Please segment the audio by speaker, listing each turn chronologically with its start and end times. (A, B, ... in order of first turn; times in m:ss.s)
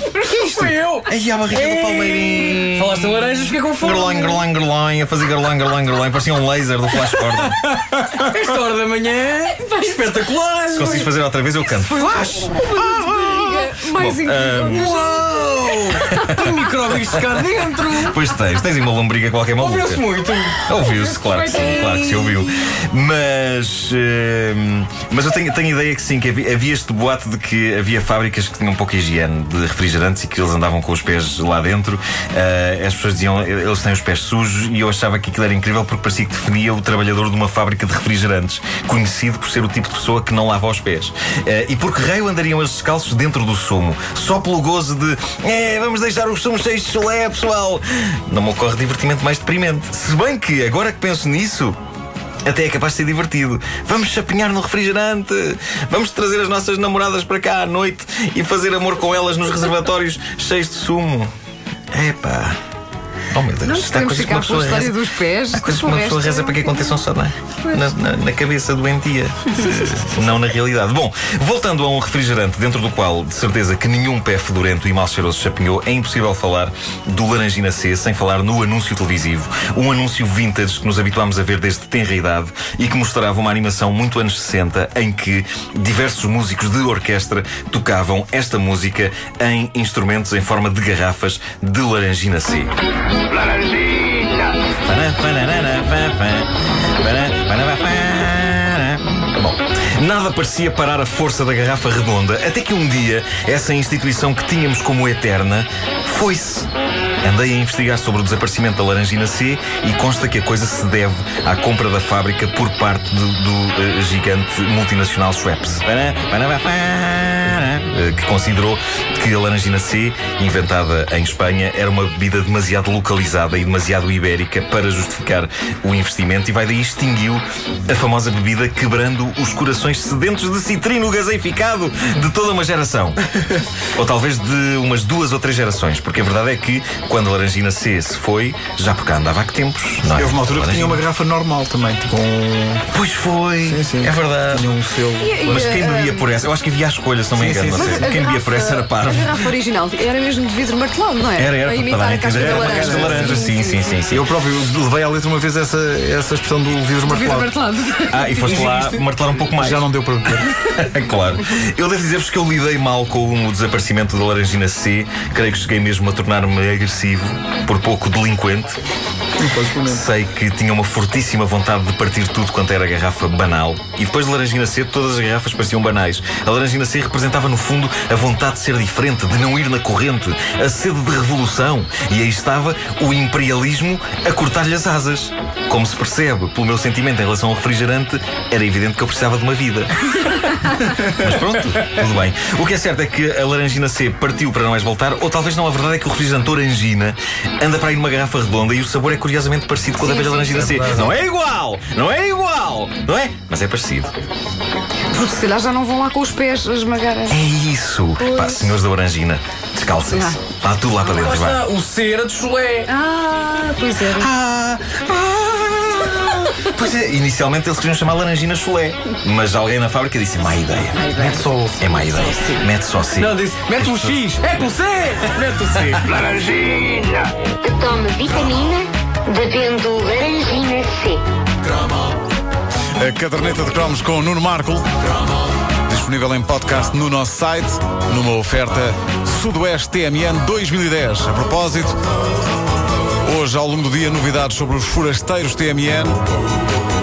0:00.1-0:04.4 A
0:00.5-0:07.6 B
0:07.1-0:11.1 A
0:10.7-0:16.4 B
0:11.7-0:15.2 C
0:14.7-0:18.2 A
0:17.1-0:20.1 B
0:19.6-0:20.7 A
0:20.6-0:51.8 B
0:21.1-0:22.3 C
0:21.4-0:22.1 A
0:52.5-1:01.3 B
1:01.9-1:02.6 B
1:03.3-1:05.0 B
1:03.6-1:07.0 C
1:05.5-1:32.7 B
1:34.9-1:36.5 B
1:37.0-1:46.7 B
1:47.2-2:13.2 B
2:13.9-2:21.0 B
2:20.2-2:22.8 D
2:22.9-2:24.8 B
2:23.6-2:25.7 D
2:25.2-2:26.3 C
2:25.4-2:29.4 B
2:27.4-2:28.0 D
2:27.7-2:34.1 C
2:31.4-2:34.3 B
2:32.3-2:33.4 D
2:34.1-2:37.5 D
2:37.0-2:38.9 C
2:38.1-2:48.8 B
2:38.5-2:40.6 D
2:49.4-2:50.0 D
2:49.8-3:09.9 B
3:11.0-3:24.1 B
3:20.0-3:20.8 C
3:25.1-3:27.4 C
3:27.3-3:31.6 B
3:28.2-3:28.8 C
3:30.1-3:30.4 C
3:31.0-3:32.9 A
3:32.9-3:34.3 C
3:34.0-3:41.2 B
3:41.0-3:41.5 C
3:41.2-3:42.6 A
3:41.8-3:44.2 B
3:43.1-3:47.1 A
3:47.6-3:51.2 E
3:53.0-3:54.8 F
3:55.9-4:02.0 F
4:03.2-4:06.2 F